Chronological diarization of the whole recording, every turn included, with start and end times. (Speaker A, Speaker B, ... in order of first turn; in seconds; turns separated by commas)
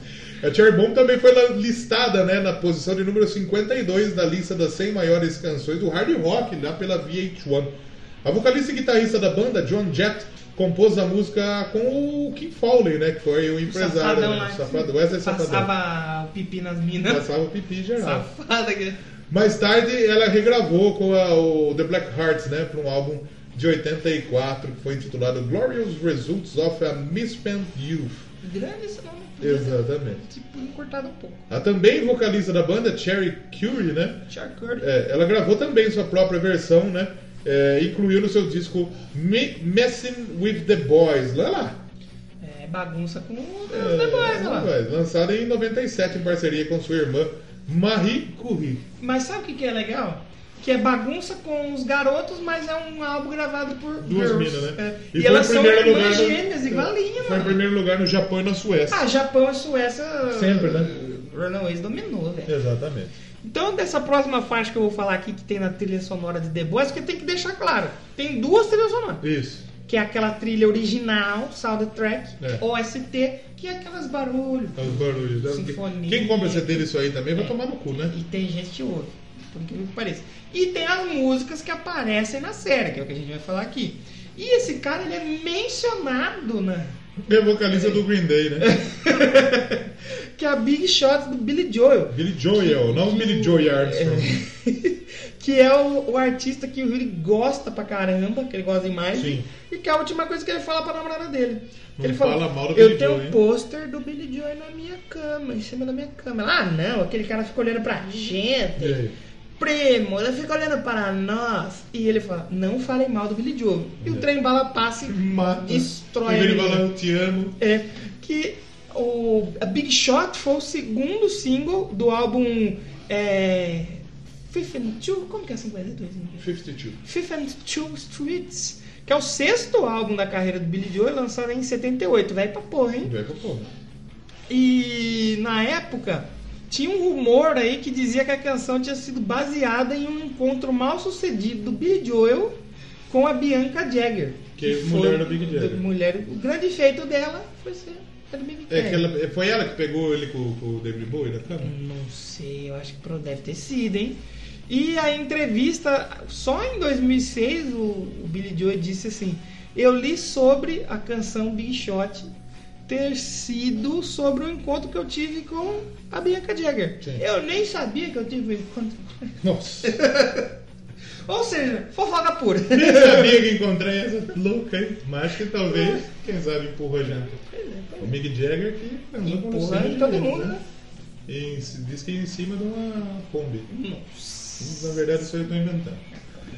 Speaker A: 0.4-15.7, Speaker B: 13.7-17.3, Speaker A: 17.0-18.3, Speaker B: 18.0-19.0, Speaker A: 19.3-28.3, Speaker B: 28.4-31.4, Speaker A: 29.4-30.2, Speaker A: 31.5-34.2, Speaker B: 34.3-34.9, Speaker A: 34.8-41.8, Speaker B: 42.4-44.7, Speaker A: 43.7-48.8, Speaker B: 49.0-57.6, Speaker A: 54.0-59.0, Speaker B: 58.9-62.6, Speaker A: 60.3-60.9, Speaker A: 62.5-63.1, Speaker B: 63.4-69.2, Speaker A: 69.2-69.7, Speaker B: 69.8-86.9, Speaker A: 74.8-78.2, Speaker A: 87.2-89.5, Speaker B: 87.7-88.0, Speaker B: 88.6-109.0, Speaker A: 92.1-94.5, Speaker A: 99.2-99.5, Speaker A: 102.0-103.4, Speaker A: 108.8-109.2, Speaker B: 109.6-116.9, Speaker A: 114.0-114.3, Speaker A: 115.1-117.5, Speaker B: 117.6-126.5, Speaker A: 126.4-127.0, Speaker B: 127.0-133.1, Speaker A: 133.0-133.7, Speaker B: 134.5-142.6, Speaker B: 143.1-149.1, Speaker A: 144.6-145.9, Speaker A: 148.7-151.7, Speaker B: 151.5-162.3, Speaker B: 162.9-170.5, Speaker A: 169.4-170.0, Speaker B: 171.3-173.4, Speaker A: 172.7-177.4, Speaker B: 175.7-176.1, Speaker B: 177.4-178.2, Speaker A: 178.0-180.6, Speaker B: 179.2-180.6, Speaker A: 181.3-183.7, Speaker B: 183.7-185.5, Speaker A: 184.6-186.0